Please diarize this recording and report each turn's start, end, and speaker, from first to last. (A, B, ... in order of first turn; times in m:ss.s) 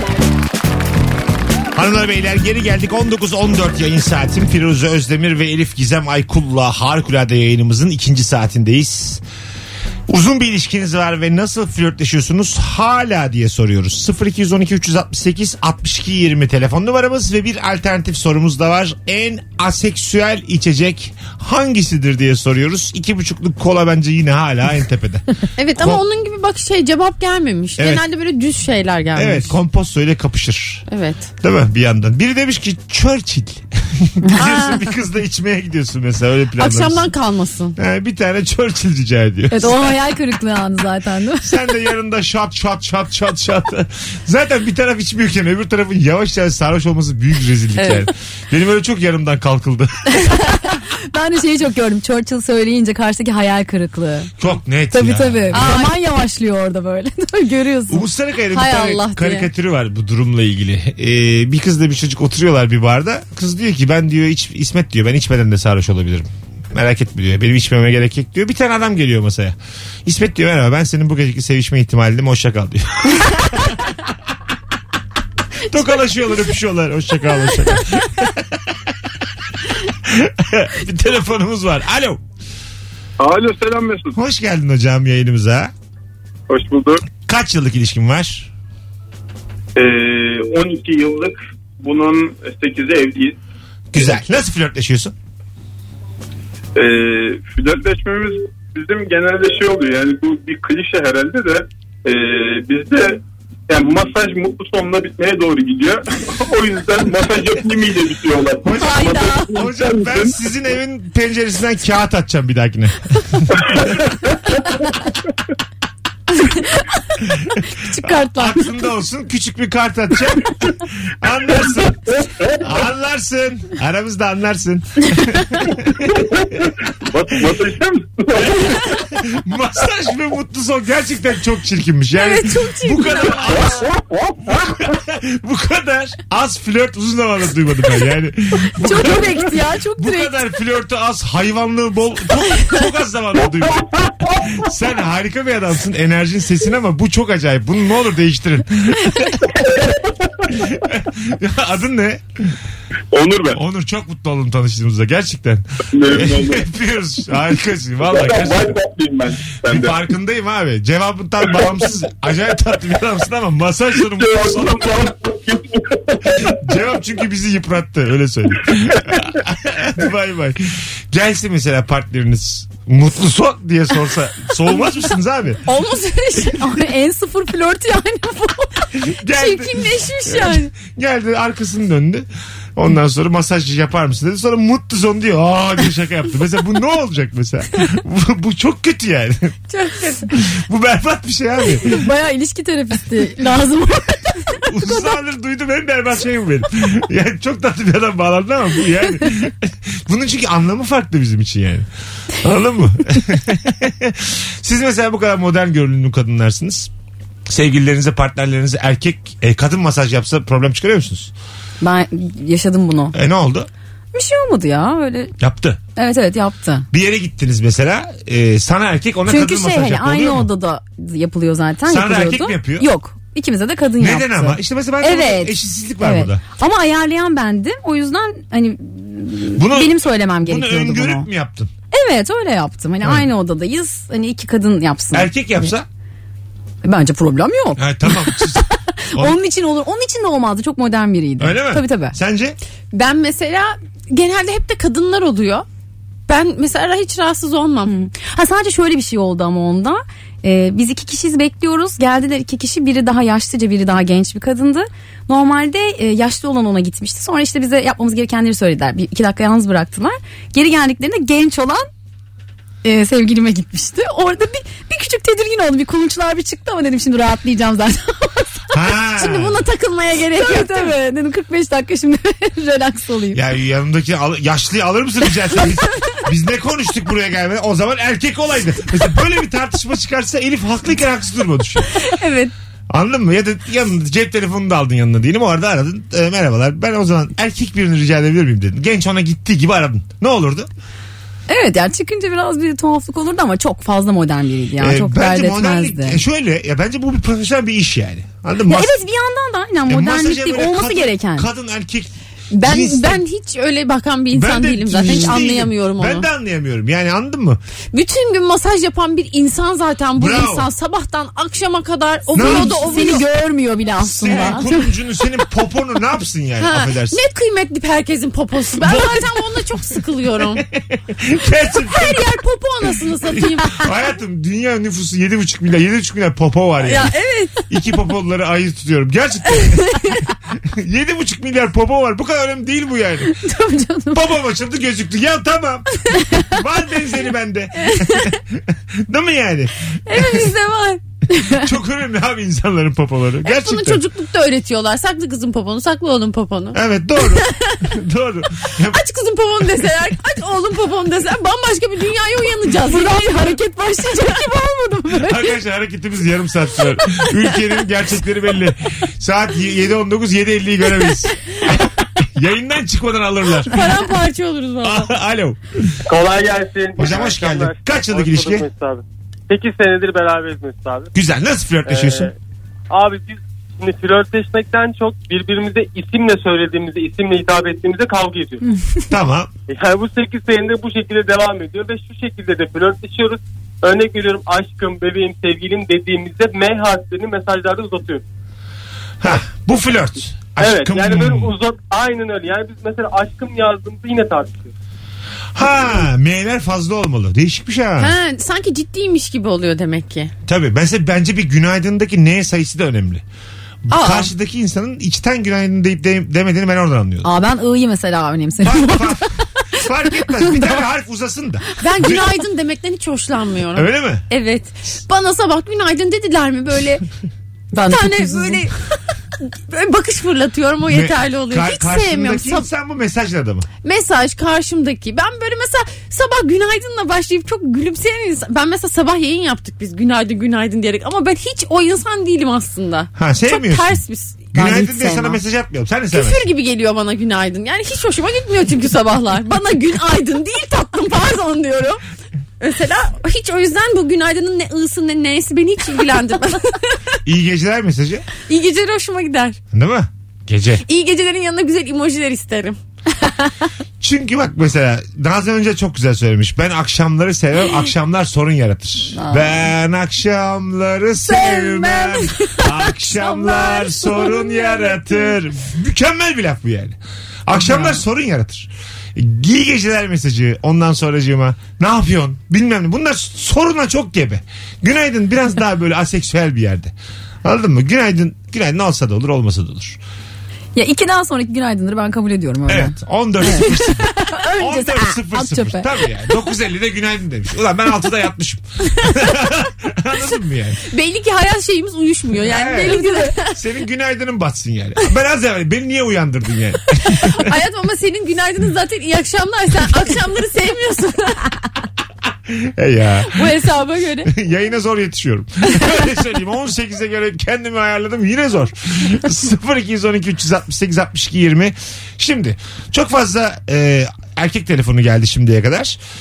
0:01.7-0:09.2 A
0:10.1-0:25.2 A
0:25.6-0:29.5 B
0:25.8-0:26.0 A
0:27.8-0:28.0 A
0:29.1-0:30.8 A
0:30.9-0:31.3 B
0:31.4-0:37.1 A
0:34.4-0:34.8 B
0:36.6-0:37.8 B
0:37.8-0:39.9 A
0:39.5-0:41.5 C
0:41.4-0:50.2 A
0:47.8-0:48.1 B
0:50.2-0:54.3 C
0:54.4-0:55.8 A
0:54.9-0:58.0 C
0:55.5-0:56.0 B
0:57.9-1:13.8 A
0:58.5-0:59.5 B
1:15.7-1:18.9 A
1:20.0-1:22.2 A
1:23.2-1:24.2 D
1:24.1-1:25.7 A
1:26.5-1:27.0 D
1:27.2-1:28.5 A
1:29.8-1:33.4 D
1:33.9-1:35.1 A
1:36.8-1:50.4 D
1:48.6-1:53.8 A
1:48.7-1:49.6 C
1:56.3-1:56.8 C
1:57.7-1:58.7 C
1:58.2-2:06.7 A
2:06.1-2:09.0 D
2:07.2-2:07.6 A
2:08.6-2:13.9 A
2:12.1-2:13.7 B
2:14.5-2:29.4 A
2:18.7-2:20.4 C
2:30.5-2:32.2 A
2:33.1-2:33.6 D
2:33.5-2:38.8 A
2:35.9-2:36.7 D
2:38.0-2:40.0 D
2:39.6-2:45.0 A
2:44.1-2:46.5 D
2:46.5-2:55.6 A
2:55.7-2:56.7 B
2:56.3-2:58.7 C
2:59.1-3:09.5 A
2:59.3-3:00.7 B
3:09.7-3:10.2 B
3:10.4-3:12.0 A
3:11.7-3:14.6 C
3:14.6-3:26.9 A
3:27.5-3:31.3 A
3:31.8-3:33.2 C
3:33.1-3:33.7 A
3:34.1-3:35.3 C
3:35.4-3:35.8 A
3:36.0-3:36.8 C
3:36.9-3:40.5 A
3:39.2-3:51.3 C
3:41.9-3:42.9 A
3:44.0-3:46.4 A
3:49.6-3:51.7 A
3:51.9-3:55.7 C
3:53.0-3:53.3 A
3:55.1-3:55.8 A
3:56.8-4:02.2 C
3:57.8-3:59.4 A
4:01.4-4:02.6 A
4:02.9-4:05.6 B
4:06.3-4:07.9 B
4:07.8-4:21.9 C
4:22.8-4:28.6 C
4:28.7-4:29.6 A
4:29.2-4:30.9 B
4:30.4-4:33.4 C
4:33.3-4:42.0 A
4:42.0-4:42.5 C
4:42.9-4:50.7 A
4:51.5-4:56.2 C
4:54.8-4:59.0 A
4:58.7-5:01.5 C
4:59.9-5:03.2 A
5:02.5-5:06.3 B
5:04.3-5:07.6 A
5:05.0-5:05.4 C
5:07.9-5:13.2 B
5:10.2-5:10.7 A
5:12.3-5:14.9 C
5:12.3-5:13.2 A
5:14.0-5:17.2 A
5:14.3-5:14.7 B
5:16.6-5:20.6 B
5:18.8-5:19.2 A
5:20.6-5:22.2 A
5:21.9-5:23.9 B
5:23.2-5:27.1 A
5:26.8-5:27.6 B
5:27.7-5:30.0 A
5:30.6-5:33.4 A
5:33.2-5:34.2 C
5:34.1-5:35.9 A
5:36.2-5:36.5 C
5:36.4-5:40.4 A
5:37.9-5:38.3 C
5:40.1-5:41.7 C
5:41.5-5:44.0 A
5:43.4-5:47.9 B
5:46.7-5:49.0 A
5:48.9-5:54.3 B
5:52.8-5:55.6 C
5:55.2-6:01.3 A
6:02.2-6:03.9 A
6:03.7-6:05.1 B
6:04.8-6:05.9 A
6:06.1-6:11.1 E
6:07.0-6:08.6 A
6:11.1-6:12.3 A
6:11.8-6:12.3 E
6:12.9-6:18.6 E
6:19.1-6:19.5 A
6:19.7-6:28.2 E
6:29.2-6:31.5 A
6:30.6-6:34.7 E
6:35.5-6:38.1 A
6:38.0-6:40.3 B
6:40.4-6:43.2 A
6:43.8-6:47.3 A
6:43.9-6:44.3 B
6:47.2-6:49.3 C
6:48.6-6:52.3 A
6:50.3-6:50.8 C
6:51.8-6:57.0 B
6:53.7-6:54.2 A
6:57.7-6:58.7 C
6:57.8-6:58.7 B
6:59.4-7:02.7 B
7:00.8-7:03.7 A
7:03.8-7:15.4 B
7:13.2-7:14.0 A
7:14.5-7:16.4 A
7:16.1-7:22.0 B
7:22.6-7:27.2 B
7:27.2-7:28.3 A
7:28.5-7:29.6 B
7:29.7-7:30.8 A
7:30.8-7:32.8 B
7:34.0-7:56.9 A
7:39.1-7:39.6 C
7:41.3-7:45.2 C
7:47.5-7:48.0 C
7:57.4-8:00.0 A
8:00.7-8:06.1 C
8:02.7-8:10.8 A
8:10.9-8:13.6 B
8:12.4-8:17.5 A
8:12.8-8:13.3 C
8:17.0-8:21.5 B
8:22.5-8:23.5 A
8:23.3-8:24.3 B
8:24.2-8:36.0 A